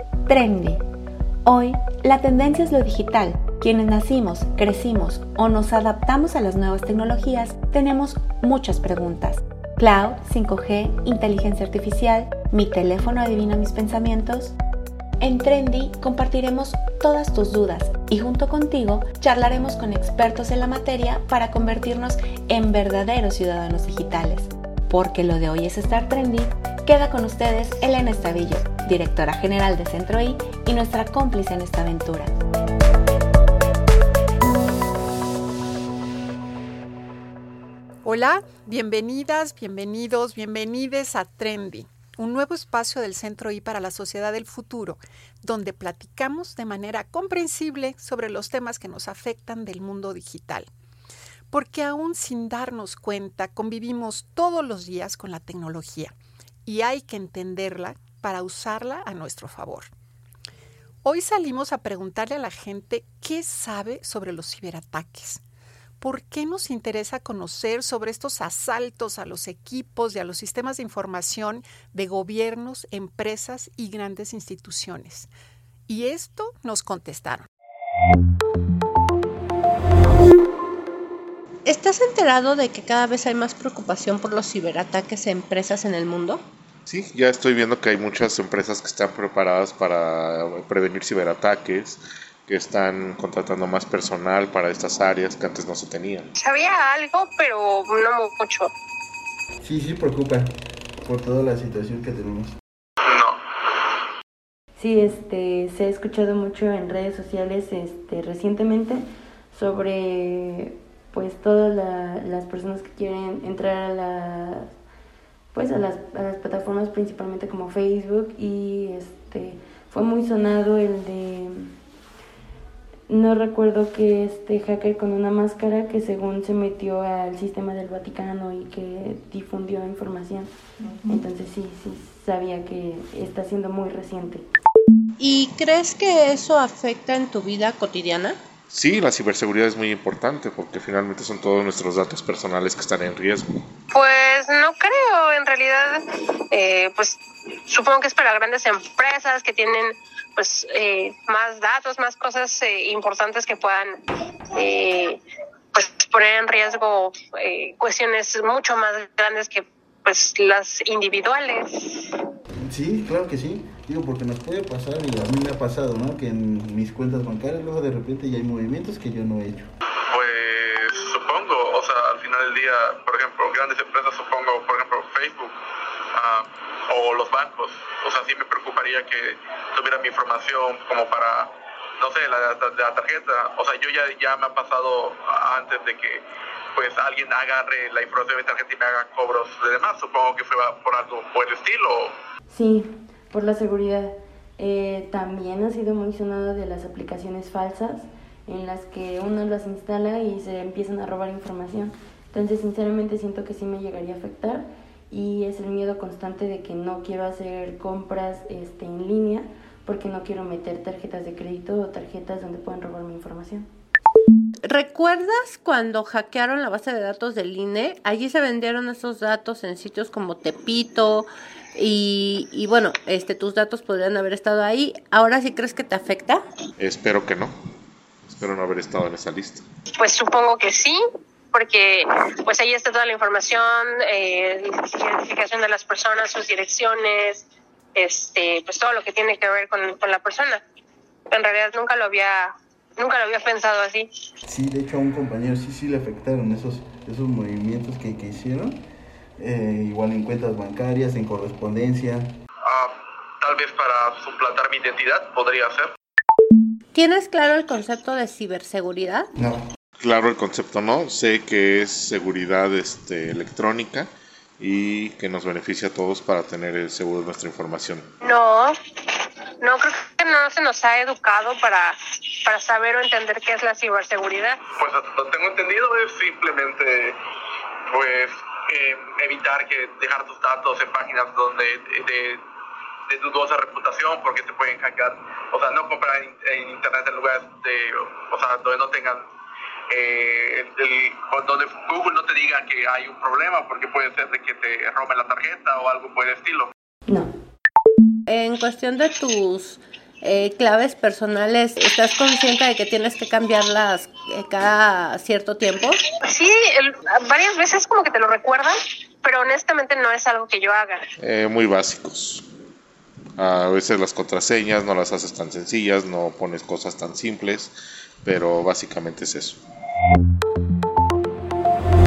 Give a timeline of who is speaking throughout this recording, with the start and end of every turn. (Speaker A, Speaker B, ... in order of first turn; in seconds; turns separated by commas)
Speaker A: 0.2-0.8, Speaker A: 1.4-14.5, Speaker A: 15.2-32.4, Speaker B: 38.0-50.7, Speaker B: 51.5-56.1, Speaker B: 56.6-59.9, Speaker B: 61.0-65.4, Speaker B: 66.0-75.3, Speaker B: 75.9-77.5, Speaker C: 81.7-86.4, Speaker D: 86.8-96.3, Speaker E: 96.4-98.7, Speaker F: 99.6-100.5, Speaker F: 101.0-102.5, Speaker G: 103.0-103.9, Speaker H: 104.8-114.7, Speaker H: 115.5-121.7, Speaker H: 123.1-130.5, Speaker H: 131.0-134.4, Speaker C: 135.2-138.4, Speaker D: 138.7-143.5, Speaker E: 143.9-154.0, Speaker E: 154.5-155.2, Speaker E: 155.7-162.2, Speaker F: 162.6-169.7, Speaker G: 170.1-175.6, Speaker G: 176.1-192.1, Speaker H: 192.5-213.7, Speaker C: 214.7-226.4, Speaker D: 226.8-227.5, Speaker D: 228.3-229.6, Speaker E: 230.0-231.0, Speaker E: 231.5-240.6, Speaker E: 241.3-244.1, Speaker F: 244.4-248.8, Speaker F: 249.4-252.3, Speaker G: 252.6-255.9, Speaker C: 256.9-259.3, Speaker F: 259.4-259.6, Speaker D: 260.0-268.1, Speaker E: 268.2-268.8, Speaker E: 269.6-274.6, Speaker G: 274.8-277.2, Speaker G: 277.9-282.4, Speaker G: 283.1-289.2, Speaker G: 289.9-296.7, Speaker H: 297.1-297.3, Speaker C: 298.3-306.0, Speaker E: 306.2-311.1, Speaker D: 311.2-312.4, Speaker D: 313.4-319.6